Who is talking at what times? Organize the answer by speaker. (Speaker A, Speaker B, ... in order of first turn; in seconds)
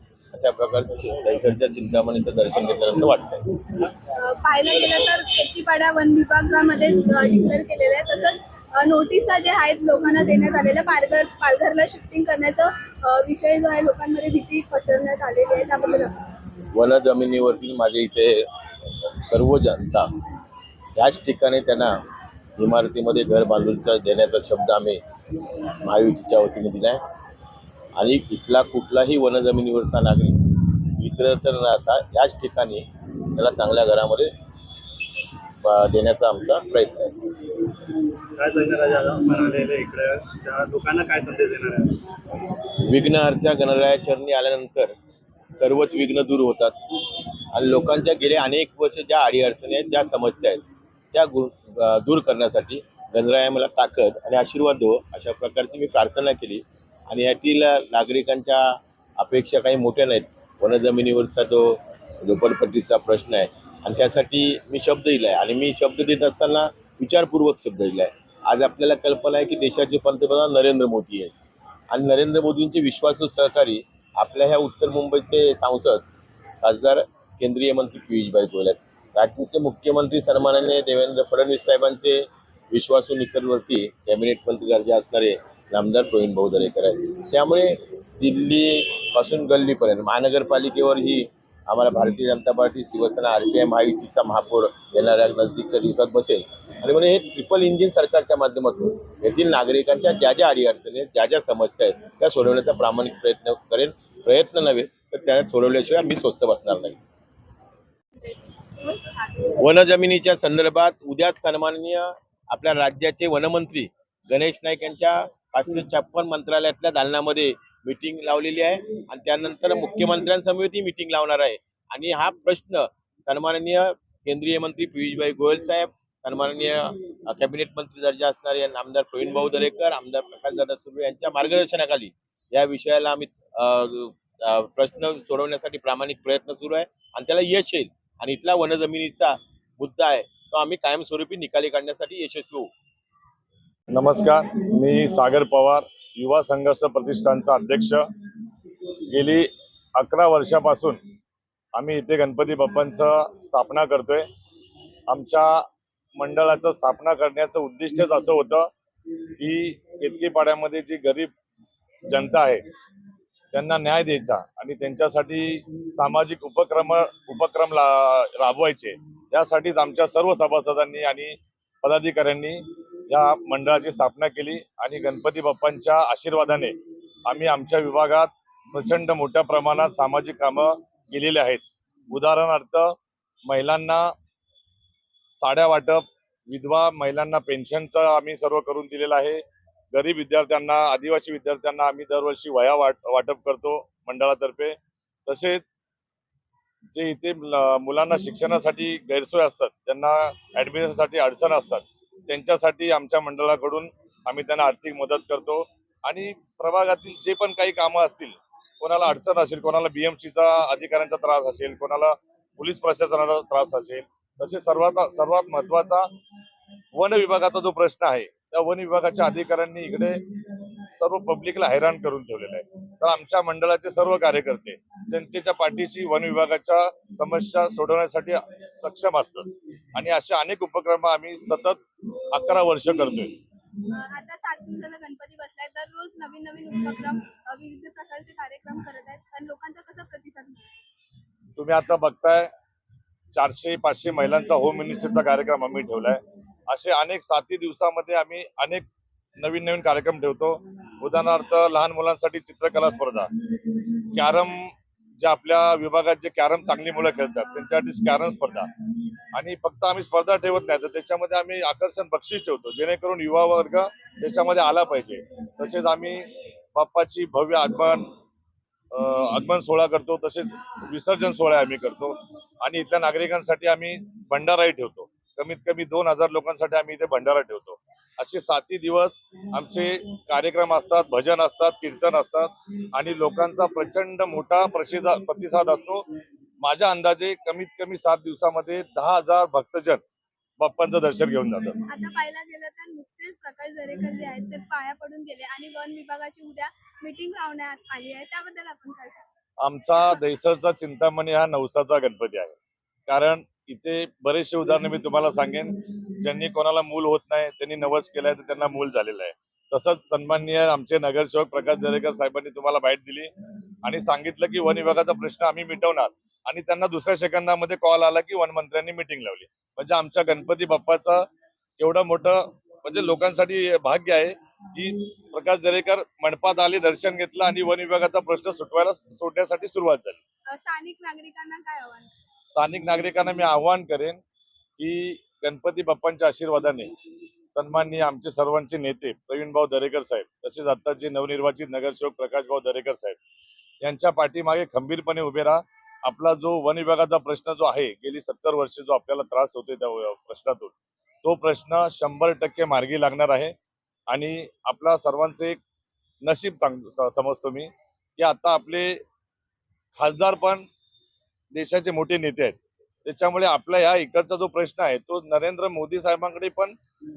Speaker A: 0.3-3.4, 16.7-18.5, 19.2-20.1, 21.0-21.9, 22.6-25.0, 25.5-27.0, 28.0-34.3, 35.6-37.5, 42.7-44.9, 45.5-46.8, 47.5-71.3, 71.9-76.0, 76.6-107.0, 109.5-142.7
Speaker B: 3.9-16.1, 108.2-109.6, 233.9-240.7, 291.9-299.3, 330.5-332.1
Speaker C: 38.3-42.0
Speaker D: 143.9-148.1, 149.1-151.0, 151.8-154.3, 155.1-158.7, 159.4-161.3, 162.1-162.6, 163.5-183.0, 183.5-184.1, 185.3-189.4, 189.9-195.7, 196.9-216.1, 216.9-220.2, 220.9-233.4, 241.6-242.5, 243.3-248.8, 249.4-253.3, 254.1-258.7, 259.3-268.1, 268.9-286.1, 286.6-290.0, 290.6-291.8, 299.6-302.6, 303.1-313.3, 313.8-321.3, 321.8-330.2, 332.5-334.2, 334.8-336.9, 337.5-343.2, 343.8-353.6, 354.1-355.6, 356.2-359.0, 359.9-360.7, 361.5-366.8